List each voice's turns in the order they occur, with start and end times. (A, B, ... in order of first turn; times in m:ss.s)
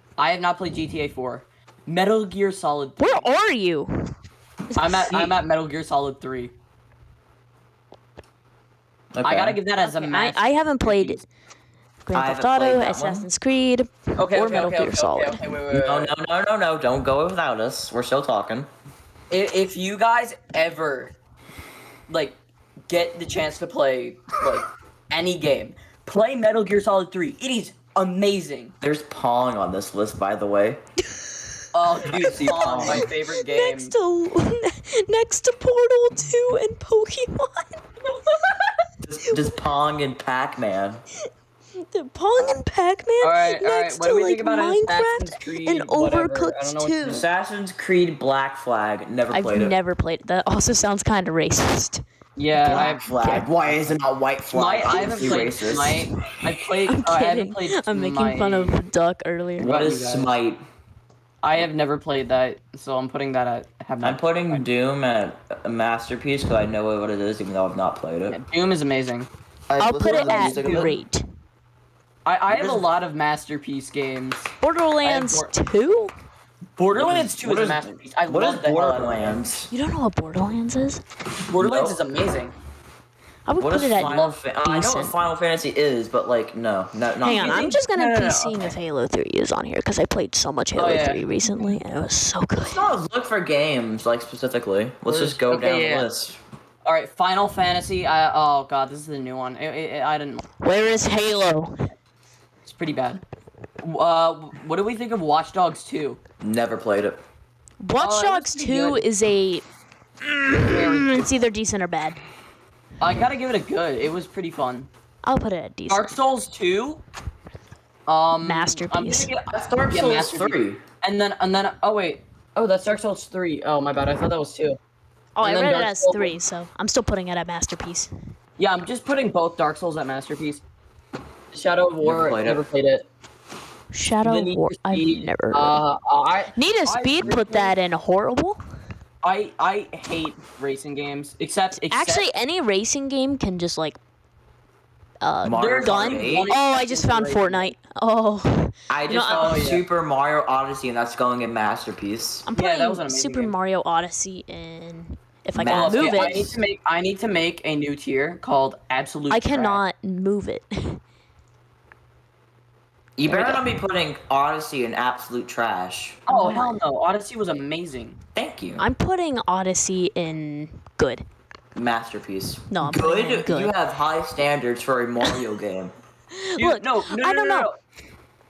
0:00.2-0:03.3 A
0:03.0-0:04.1 B
0:04.7-0:05.3 B
0:04.8-0:06.5 A
0:09.1-0:09.6 C
0:09.2-0:11.2 A
0:09.8-0:11.2 B
0:12.0-0:15.4 B
0:12.1-0:13.3 C
0:14.2-0:16.1 A
0:15.7-0:18.7 C
0:19.3-0:21.1 A
0:22.1-0:28.7 A
0:28.8-0:30.8 C
0:31.7-0:33.9 A
0:32.1-0:33.1 C
0:32.2-0:37.8 B
0:38.1-0:38.7 A
0:39.0-0:41.0 C
0:41.9-0:47.2 B
0:43.2-0:47.2 A
0:47.0-0:49.8 C
0:49.3-0:52.0 B
0:52.4-0:53.0 A
0:52.5-0:53.5 B
0:52.7-0:56.1 C
0:54.5-0:58.8 A
0:56.9-0:59.8 B
0:59.6-1:00.6 C
0:59.6-1:00.3 A
1:01.4-1:04.6 A
1:04.0-1:08.4 C
1:08.3-1:09.3 A
1:09.7-1:10.9 C
1:09.8-1:11.2 B
1:10.0-1:10.9 A
1:12.2-1:15.5 A
1:12.5-1:12.8 C
1:14.6-1:16.1 B
1:16.8-1:19.5 A
1:16.9-1:19.7 C
1:19.7-1:21.0 B
1:21.5-1:22.5 A
1:21.6-1:22.0 C
1:23.4-1:25.1 B
1:23.6-1:27.7 C
1:27.2-1:32.8 B
1:27.3-1:28.8 A
1:30.8-1:31.7 A
1:32.6-1:36.4 C
1:35.1-1:36.1 A
1:36.8-1:40.4 A
1:40.6-1:41.8 B
1:42.6-1:43.2 A
1:43.8-1:46.2 A
1:46.4-1:47.2 C
1:47.8-1:49.6 B
1:48.0-1:49.0 A
1:50.2-1:52.2 B
1:50.5-1:51.4 A
1:53.0-1:54.9 A
1:55.2-1:56.1 B
1:55.9-1:57.0 A
1:58.1-2:04.8 A
1:58.4-1:59.3 B
1:59.5-2:00.8 C
2:05.4-2:08.1 B
2:05.4-2:06.3 A
2:08.6-2:10.6 A
2:11.5-2:13.0 A
2:12.0-2:12.6 C
2:13.9-2:15.8 B
2:14.2-2:17.7 A
2:16.5-2:18.6 B
2:19.2-2:22.2 A
2:21.8-2:24.0 B
2:25.2-2:29.7 B
2:25.4-2:26.5 C
2:25.6-2:27.7 A
2:28.9-2:32.5 C
2:29.2-2:29.8 A
2:32.5-2:36.5 B
2:32.6-2:33.5 A
2:35.5-2:36.6 C
2:35.7-2:39.8 A
2:39.3-2:41.0 B
2:43.2-2:46.2 C
2:43.2-2:43.6 B
2:46.3-2:48.2 A
2:46.3-2:46.8 B
2:48.3-2:48.8 C
2:48.8-2:51.2 B
2:51.7-2:55.9 C
2:52.7-2:53.7 B
2:56.3-2:57.7 B
2:56.6-2:57.7 A